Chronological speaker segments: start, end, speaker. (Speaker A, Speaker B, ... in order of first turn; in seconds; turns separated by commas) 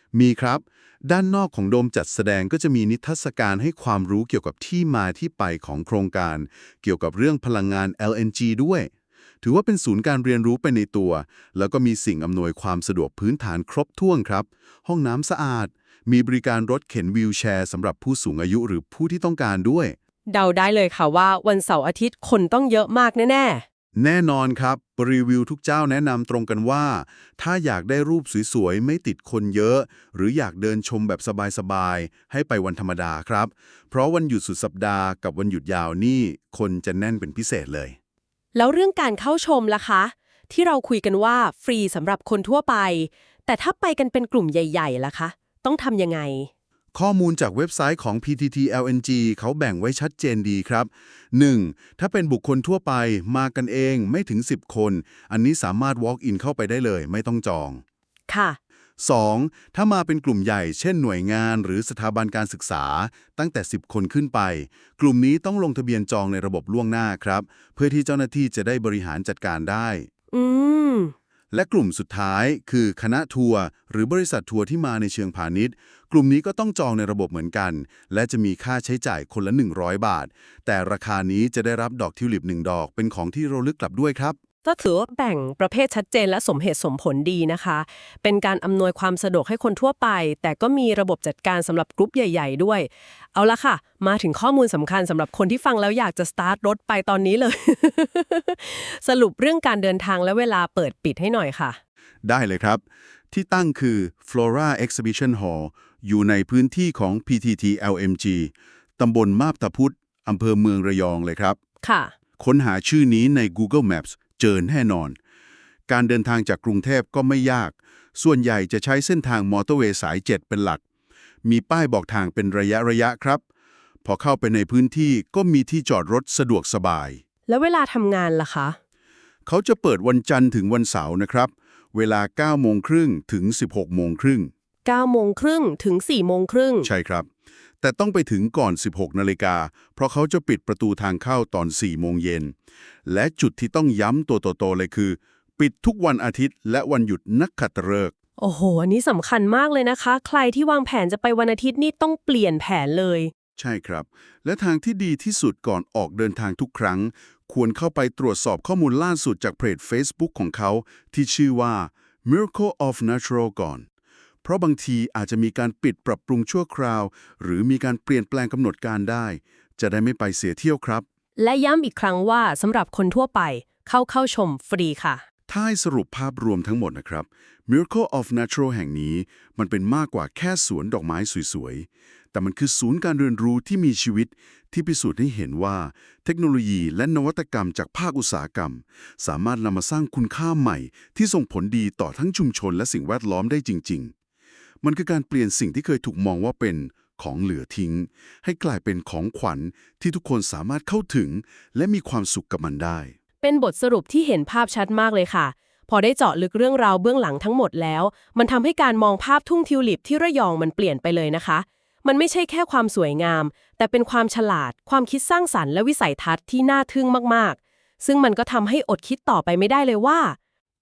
Speaker A: 0.1-8.9, Speaker A: 9.4-20.0, Speaker B: 20.3-23.6, Speaker A: 24.0-38.0, Speaker B: 38.5-46.5, Speaker A: 46.9-57.8, Speaker B: 58.3-58.6, Speaker A: 59.0-70.1, Speaker B: 70.3-71.1, Speaker A: 71.5-84.4, Speaker B: 84.6-101.8, Speaker A: 102.2-111.6, Speaker B: 111.8-112.1, Speaker A: 112.4-115.2, Speaker A: 115.9-120.8, Speaker A: 121.4-123.4, Speaker A: 124.0-127.2, Speaker B: 127.5-128.8, Speaker A: 129.5-134.5, Speaker B: 134.8-136.9, Speaker A: 136.8-137.3, Speaker A: 137.8-142.5, Speaker A: 143.1-148.1, Speaker B: 148.4-153.3, Speaker A: 153.6-163.9, Speaker A: 164.4-171.1, Speaker B: 171.4-175.2, Speaker A: 175.5-194.1, Speaker A: 194.8-203.2, Speaker B: 203.4-220.4